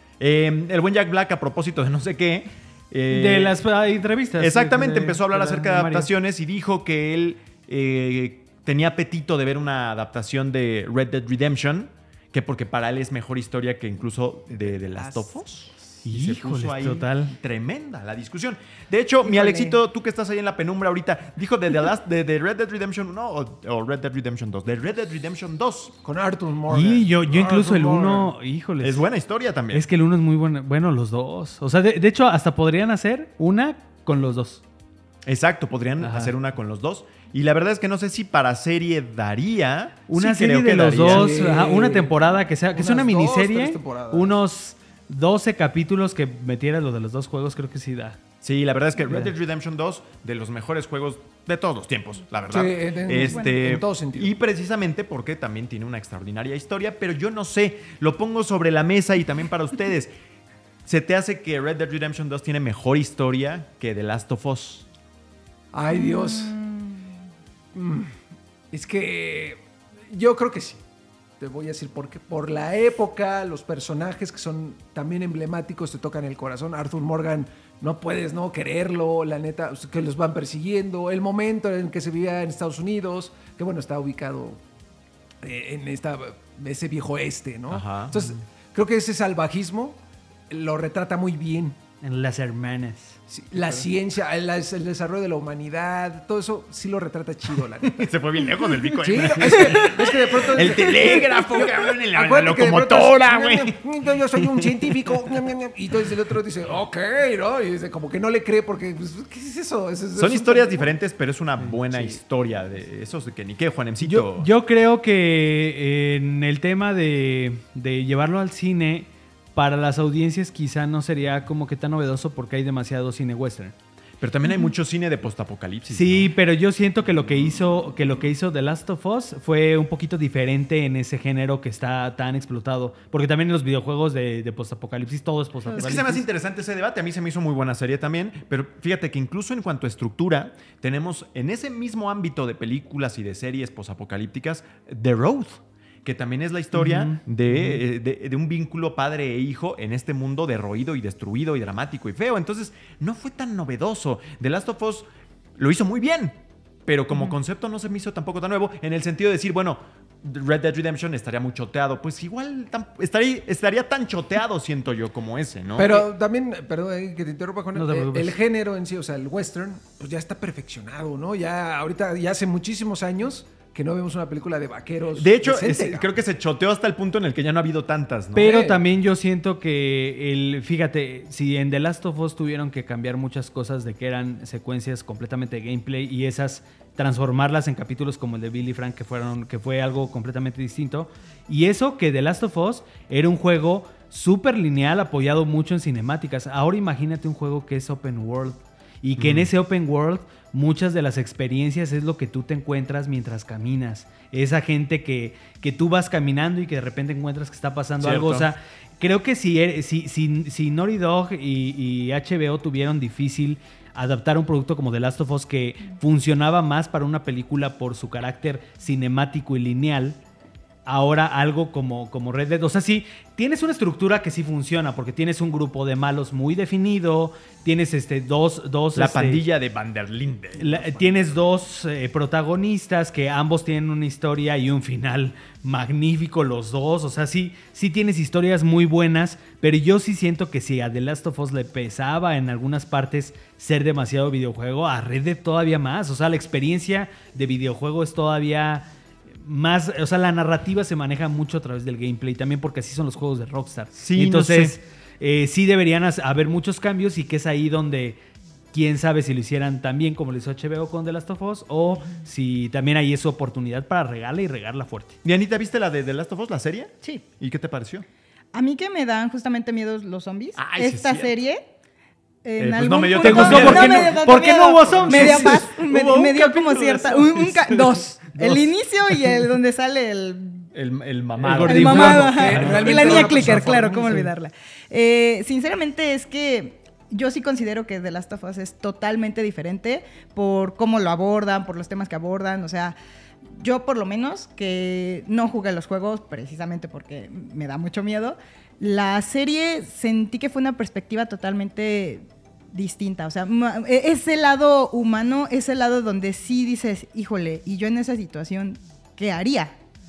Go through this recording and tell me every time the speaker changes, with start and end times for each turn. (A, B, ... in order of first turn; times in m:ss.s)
0:00.2-0:03.6 A
0:03.1-0:06.1 B
0:04.4-0:26.0 A
0:14.7-0:15.8 C
0:16.0-0:17.3 B
0:19.2-0:19.8 D
0:26.0-0:28.3 C
0:26.7-0:29.1 B
0:28.8-0:29.8 A
0:29.7-0:34.6 B
0:35.2-0:41.4 A
0:36.0-0:36.3 B
0:40.1-0:48.2 B
0:41.0-0:44.4 C
0:48.4-1:00.1 A
0:49.0-0:49.3 B
0:52.5-0:54.3 C
0:53.3-0:53.6 D
1:00.8-1:04.9 A
1:05.7-1:06.7 C
1:06.0-1:06.8 D
1:07.7-1:08.1 C
1:08.7-1:10.8 C
1:11.4-1:24.6 C
1:25.4-1:30.0 C
1:27.7-1:28.4 A
1:30.5-1:31.8 C
1:32.0-1:33.2 B
1:33.3-1:38.1 C
1:37.9-1:43.8 A
1:39.0-1:50.9 C
1:39.6-1:39.9 D
1:50.2-1:54.5 A
1:51.6-1:52.1 B
1:54.0-2:03.7 B
2:04.2-2:06.3 A
2:05.9-2:16.3 B
2:15.7-2:46.1 A
2:26.7-2:27.8 B
2:45.8-2:56.1 C
2:47.7-2:48.4 B
2:55.2-2:58.5 A
2:58.3-3:40.2 B
2:58.4-2:58.8 C
3:19.2-3:19.5 A
3:28.0-3:28.5 A
3:40.8-3:49.4 B
3:48.9-3:51.0 A
3:50.6-4:08.9 B
4:09.4-4:18.2 B
4:13.9-4:14.7 A
4:18.7-4:25.2 B
4:25.2-4:28.0 A
4:28.5-4:31.6 D
4:30.6-4:31.3 A
4:32.4-4:40.7 D
4:32.6-4:34.3 A
4:33.2-4:35.7 B
4:33.4-4:33.8 C
4:35.0-4:35.3 C
4:35.0-4:37.8 A
4:38.4-4:38.6 B
4:40.7-4:43.7 A
4:41.4-4:43.6 B
4:41.5-4:44.3 C
4:41.6-4:53.0 D
4:53.5-5:09.7 D